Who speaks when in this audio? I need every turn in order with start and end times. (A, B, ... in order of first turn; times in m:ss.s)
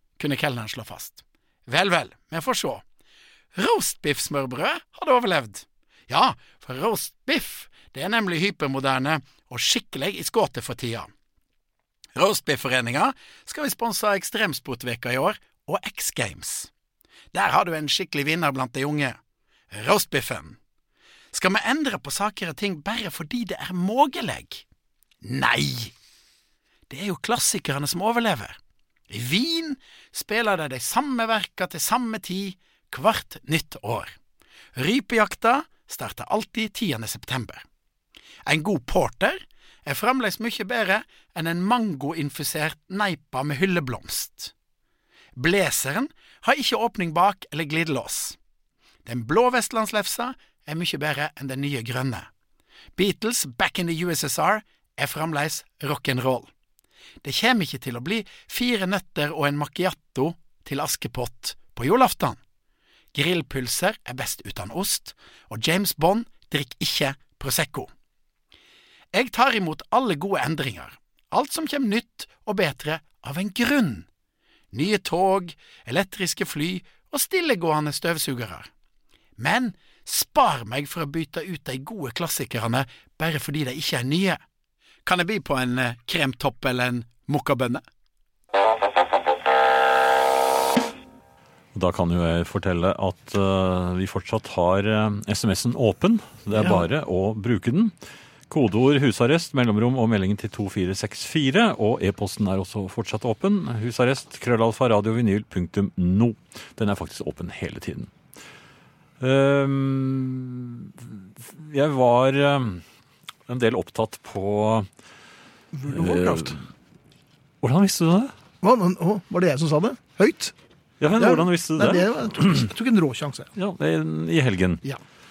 0:00.2-0:02.8 A
0:03.6-0:11.1 A
0:12.2-0:16.7 A
0:17.3-0:19.2 A
0:19.7-0:20.6 A
0:21.3-0:24.6 A
0:25.2-0:25.9 A
0:26.9-0:28.6 A
0:29.1-0:34.2 A
0:34.8-0:37.6 A
0:38.5-0:44.5 A
0:45.4-0:48.4 A
0:49.0-0:52.3 A
0:53.0-0:56.5 A
0:57.2-1:02.4 A
1:03.1-1:07.9 A
1:09.1-1:14.1 A
1:14.7-1:18.7 A
1:19.4-1:24.4 A
1:25.0-1:27.8 A
1:31.7-1:37.9 B
1:36.6-1:36.8 C
1:38.5-1:48.1 B
1:49.2-1:52.8 B
1:53.5-1:54.9 B
1:55.7-1:56.6 C
1:55.9-1:56.6 B
1:57.6-1:58.3 B
1:58.6-2:00.5 C
2:01.0-2:02.7 B
2:01.2-2:03.5 C
2:03.6-2:04.8 B